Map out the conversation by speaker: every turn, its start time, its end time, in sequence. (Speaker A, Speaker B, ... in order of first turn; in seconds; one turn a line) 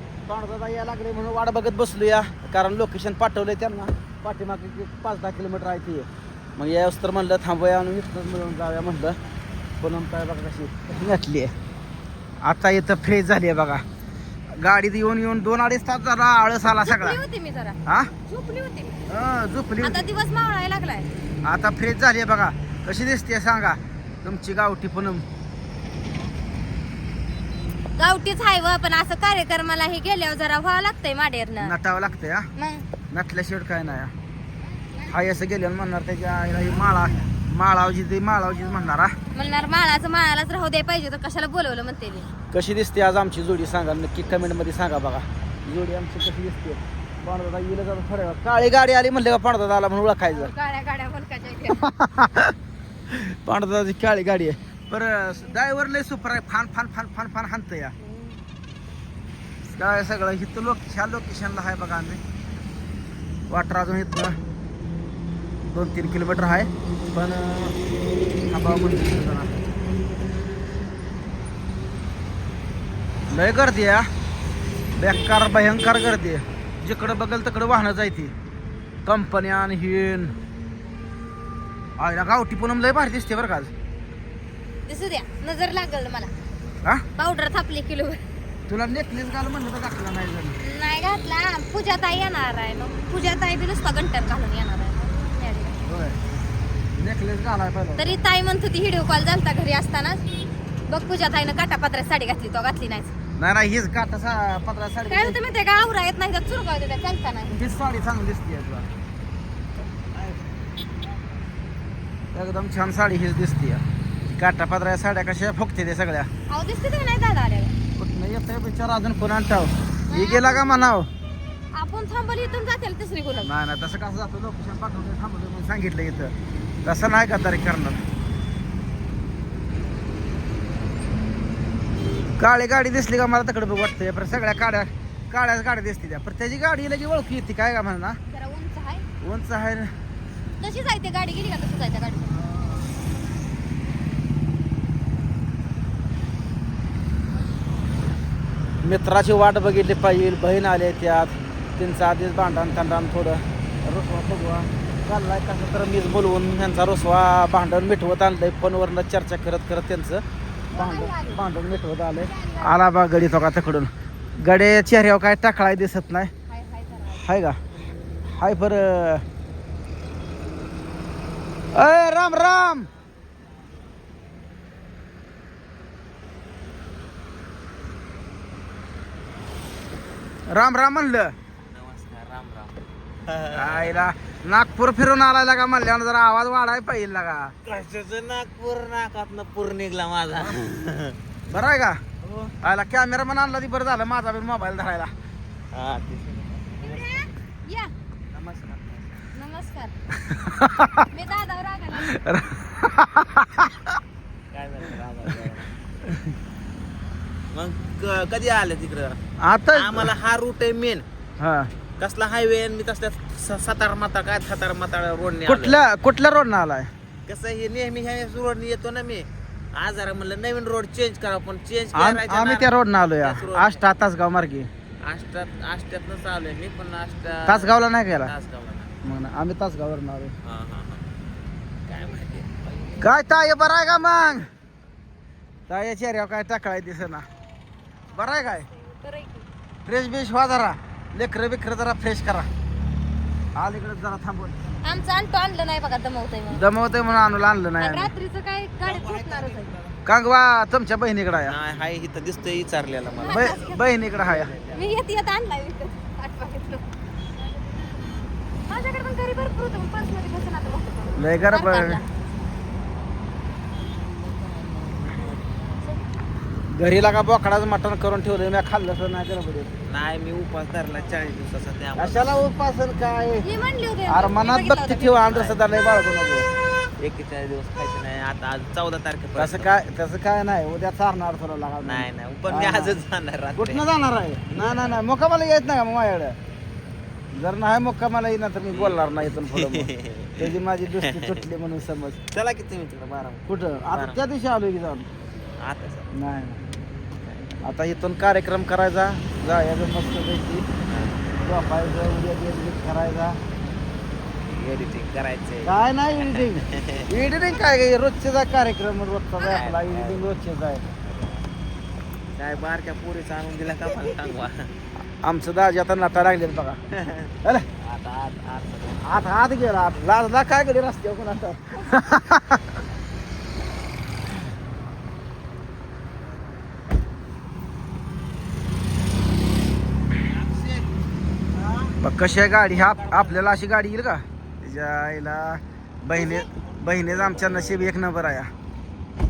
Speaker A: 0.2-9.2
Speaker A: 9.8-11.5
Speaker A: 12.4-13.8
Speaker A: 14.6-17.2
Speaker B: 16.8-19.0
Speaker A: 19.1-20.0
Speaker B: 19.8-21.1
Speaker A: 21.4-25.2
Speaker B: 28.0-31.8
Speaker A: 31.6-32.5
Speaker B: 32.5-32.9
Speaker A: 33.1-34.1
Speaker B: 34.8-35.4
Speaker A: 35.1-39.1
Speaker B: 39.3-42.3
Speaker A: 42.5-50.5
Speaker B: 50.2-51.9
Speaker A: 51.8-52.5
Speaker A: 53.1-57.9
Speaker B: 58.0-58.4
Speaker A: 59.7-62.2
Speaker A: 63.5-64.4
Speaker A: 65.6-67.8
Speaker A: 68.5-69.5
Speaker A: 73.3-74.1
Speaker A: 75.0-78.3
Speaker A: 79.0-80.3
Speaker A: 82.0-83.7
Speaker B: 84.8-86.3
Speaker B: 87.2-88.2
Speaker A: 88.7-90.5
Speaker B: 90.6-95.8
Speaker A: 95.8-96.2
Speaker A: 97.0-98.2
Speaker B: 98.0-100.2
Speaker B: 100.9-103.1
Speaker A: 103.4-105.4
Speaker B: 105.1-107.8
Speaker A: 107.5-108.8
Speaker C: 110.1-110.5
Speaker A: 112.3-116.3
Speaker B: 116.5-117.7
Speaker A: 118.0-121.1
Speaker B: 120.1-121.0
Speaker B: 121.7-123.5
Speaker A: 123.4-126.3
Speaker A: 126.8-128.0
Speaker A: 132.4-138.2
Speaker B: 138.3-139.1
Speaker A: 139.2-139.9
Speaker B: 140.6-142.4
Speaker A: 148.8-160.2
Speaker B: 160.7-161.4
Speaker A: 160.7-166.3
Speaker B: 162.2-162.8
Speaker B: 166.5-167.3
Speaker A: 167.2-167.6
Speaker A: 168.3-169.2
Speaker A: 171.7-172.9
Speaker A: 180.5-181.3
Speaker C: 181.6-184.1
Speaker A: 183.5-187.5
Speaker C: 187.6-191.2
Speaker A: 191.5-192.0
Speaker A: 192.6-195.1
Speaker C: 195.7-197.3
Speaker B: 196.8-197.9
Speaker C: 198.3-199.3
Speaker B: 199.3-199.9
Speaker A: 200.1-201.1
Speaker B: 201.1-202.2
Speaker A: 202.0-203.9
Speaker C: 204.5-205.7
Speaker C: 207.5-209.2
Speaker A: 209.4-210.1
Speaker C: 209.7-211.0
Speaker A: 211.4-211.7
Speaker C: 212.0-215.8
Speaker A: 215.5-216.9
Speaker C: 217.2-223.8
Speaker A: 221.9-224.7
Speaker C: 225.0-228.9
Speaker A: 227.4-228.3
Speaker A: 229.0-230.3
Speaker C: 230.4-231.0
Speaker C: 231.9-233.1
Speaker A: 233.0-234.4
Speaker A: 235.7-237.2
Speaker A: 238.1-238.7
Speaker B: 238.5-239.4
Speaker A: 239.8-242.5
Speaker A: 243.5-244.6
Speaker B: 244.8-246.6
Speaker A: 246.5-248.1
Speaker B: 247.8-249.7
Speaker C: 248.8-249.9
Speaker A: 250.1-251.5
Speaker C: 251.4-255.0
Speaker B: 253.1-253.9
Speaker A: 253.3-254.5
Speaker B: 254.7-256.9
Speaker B: 258.7-262.0
Speaker A: 261.1-262.0
Speaker C: 263.9-265.7
Speaker A: 266.7-269.7
Speaker C: 269.9-272.3
Speaker A: 271.9-273.4
Speaker B: 273.4-275.3
Speaker A: 274.1-276.4
Speaker C: 275.3-275.7
Speaker C: 277.0-279.7
Speaker A: 279.4-283.0
Speaker C: 281.8-283.9
Speaker A: 283.6-286.4
Speaker C: 284.5-285.0
Speaker A: 287.3-292.2
Speaker C: 288.7-291.4
Speaker C: 292.3-294.2
Speaker A: 293.5-295.1
Speaker C: 295.6-296.1
Speaker A: 296.1-296.6
Speaker C: 297.2-297.6
Speaker A: 297.6-300.6
Speaker C: 300.9-301.3
Speaker A: 301.4-303.4
Speaker C: 304.5-307.1
Speaker A: 305.6-310.8
Speaker C: 309.4-310.3
Speaker C: 310.9-311.5
Speaker C: 312.4-314.7
Speaker A: 315.2-316.8
Speaker C: 316.9-319.2
Speaker A: 319.0-322.6
Speaker C: 330.1-330.9
Speaker C: 331.5-331.9
Speaker A: 332.0-338.5
Speaker C: 332.6-333.5
Speaker B: 336.1-336.5
Speaker C: 336.7-337.9